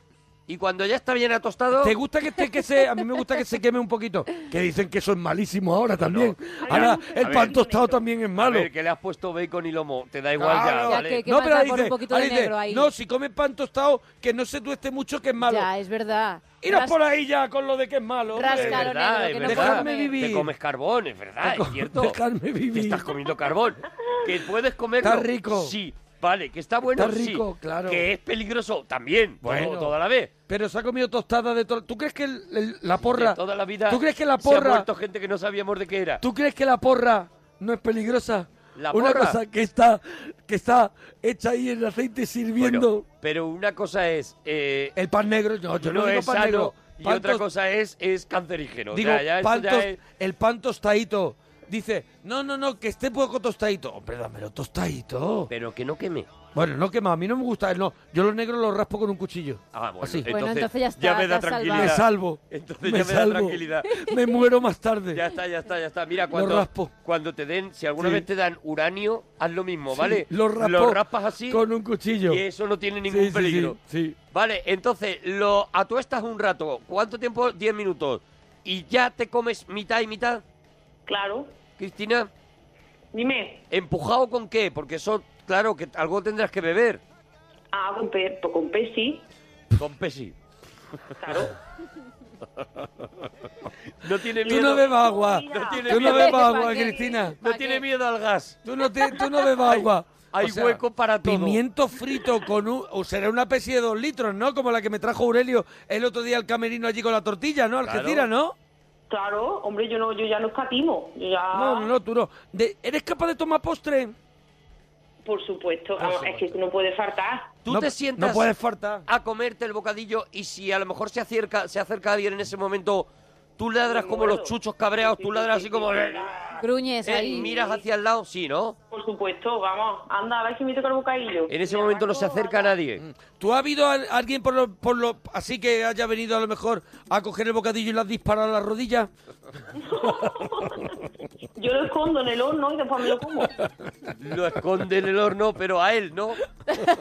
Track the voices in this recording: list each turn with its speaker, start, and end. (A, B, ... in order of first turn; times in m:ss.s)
0:00.5-0:01.9 A
0:01.8-0:08.7 B
0:06.0-0:07.6 A
0:06.6-0:08.0 C
0:08.4-0:11.2 A
0:10.3-0:15.7 B
0:10.6-0:12.9 D
0:15.4-0:17.0 D
0:16.6-0:18.9 B
0:18.3-0:20.2 D
0:18.4-0:22.2 A
0:19.4-0:20.5 B
0:21.4-0:23.0 B
0:22.7-0:30.3 A
0:25.0-0:25.7 B
0:26.9-0:28.0 B
0:29.4-0:29.9 B
0:30.5-0:34.9 B
0:33.0-0:36.2 A
0:36.2-0:43.0 B
0:38.8-0:39.4 A
0:42.6-0:44.9 A
0:45.0-0:47.4 B
0:45.8-0:50.0 A
0:48.9-0:55.5 B
0:55.5-0:56.3 A
0:56.5-1:00.3 B
0:59.7-1:03.9 A
1:00.3-1:02.0 D
1:01.7-1:05.2 B
1:05.1-1:11.6 A
1:06.3-1:06.9 B
1:08.0-1:08.2 B
1:09.9-1:12.4 B
1:12.2-1:13.8 A
1:13.1-1:14.2 B
1:14.3-1:20.4 A
1:21.1-1:21.5 C
1:21.8-1:22.3 A
1:23.1-1:23.6 C
1:23.7-1:27.0 A
1:27.7-1:29.2 C
1:29.8-1:30.3 A
1:31.2-1:31.5 C
1:34.0-1:34.9 A
1:34.4-1:37.4 B
1:34.4-1:37.2 C
1:35.5-1:36.5 A
1:36.0-1:37.8 D
1:37.4-1:38.6 A
1:38.6-1:48.5 B
1:39.7-1:41.6 A
1:47.8-1:48.3 A
1:49.1-1:51.9 C
1:51.5-1:54.1 B
1:55.2-1:57.5 C
1:56.0-1:56.5 B
1:57.6-1:58.5 A
1:57.7-1:59.0 B
1:59.1-2:06.5 A
2:03.8-2:06.3 C
2:06.6-2:07.5 D
2:07.0-2:08.8 A
2:07.5-2:07.8 C
2:08.9-2:12.8 C
2:11.5-2:13.0 A
2:13.0-2:19.1 B
2:19.8-2:20.8 C
2:21.6-2:23.5 C
2:24.2-2:26.4 A